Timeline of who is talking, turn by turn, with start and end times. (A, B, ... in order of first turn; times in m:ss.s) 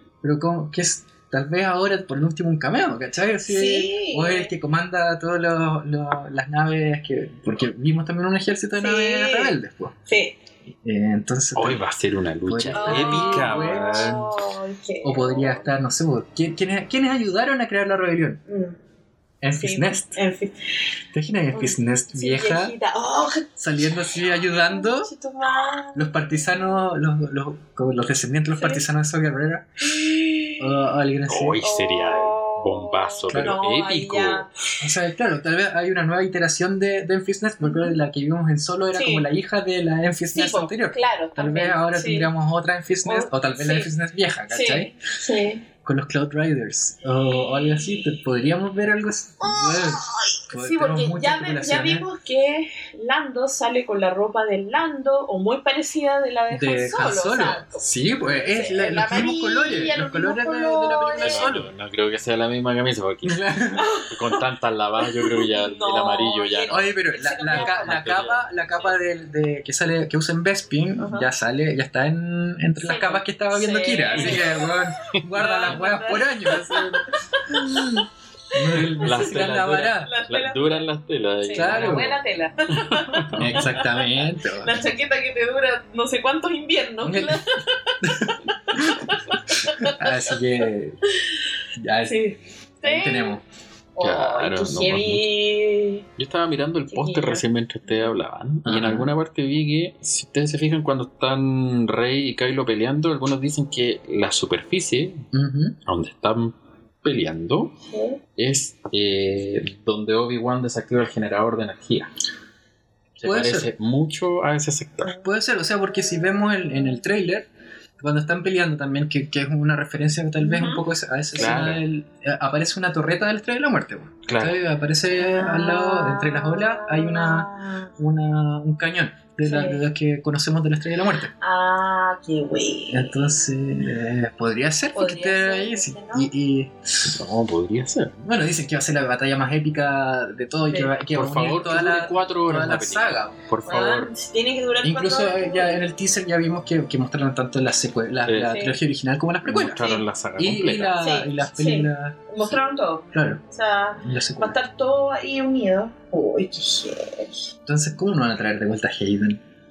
0:00.2-0:09.9 A
0:03.4-0:04.5 B
0:08.8-0:10.4 B
0:10.8-0:11.8 A
0:11.6-0:14.3 C
0:12.4-0:14.2 A
0:12.7-0:15.7 B
0:15.0-0:18.4 A
0:18.5-0:18.8 B
0:19.4-0:20.2 A
0:19.5-0:20.8 B
0:21.1-0:22.7 A
0:21.5-0:23.5 B
0:23.6-0:25.1 A
0:24.0-0:26.8 B
0:25.9-0:29.8 A
0:28.5-0:28.8 B
0:29.8-0:30.8 B
0:30.6-0:31.6 A
0:31.3-0:34.5 C
0:31.6-0:34.5 B
0:33.3-0:33.6 A
0:34.8-0:44.9 A
0:37.6-0:38.0 B
0:38.9-0:39.3 B
0:40.3-0:42.3 B
0:43.0-0:43.9 B
0:44.5-0:45.6 B
0:45.8-0:52.1 A
0:47.2-0:48.1 B
0:49.4-1:01.5 B
0:56.5-1:01.7 A
1:01.2-1:06.9 C
1:03.2-1:03.9 A
1:03.8-1:04.4 B
1:05.0-1:08.0 B
1:06.7-1:20.1 A
1:07.5-1:08.4 C
1:11.0-1:11.3 B
1:12.8-1:18.0 B
1:14.1-1:14.5 C
1:15.1-1:15.8 C
1:18.7-1:19.3 B
1:18.9-1:22.2 C
1:20.0-1:20.8 B
1:21.4-1:30.4 B
1:21.5-1:22.1 A
1:22.8-1:23.8 C
1:23.3-1:24.8 A
1:27.0-1:27.4 A
1:28.0-1:29.2 A
1:29.8-1:31.0 A
1:31.8-1:32.2 A
1:32.0-1:33.4 B
1:32.8-1:33.4 A
1:34.0-1:36.0 B
1:34.0-1:35.3 C
1:36.2-1:45.3 C
1:36.9-1:38.1 B
1:38.6-1:39.1 A
1:45.3-1:45.8 A
1:45.8-1:47.8 C
1:47.9-1:48.2 B
1:48.4-1:52.1 C
1:53.2-1:55.2 C
1:53.2-1:53.7 A
1:55.2-1:57.5 A
1:58.0-2:11.3 A
2:00.4-2:00.8 B
2:01.4-2:01.8 C
2:01.4-2:01.7 B
2:04.3-2:04.6 C
2:05.2-2:07.9 B
2:09.4-2:09.8 B
2:11.4-2:13.3 B
2:12.9-2:17.1 A
2:14.9-2:16.3 B
2:17.0-2:18.2 C
2:18.2-2:23.4 A
2:21.1-2:24.1 C
2:23.6-2:25.8 B
2:24.8-2:29.8 A
2:28.3-2:28.6 C
2:28.4-2:28.8 B
2:29.4-2:31.0 C
2:30.4-2:32.4 A
2:31.0-2:37.4 B
2:33.1-2:33.4 A
2:34.0-2:34.6 A
2:37.6-2:39.4 A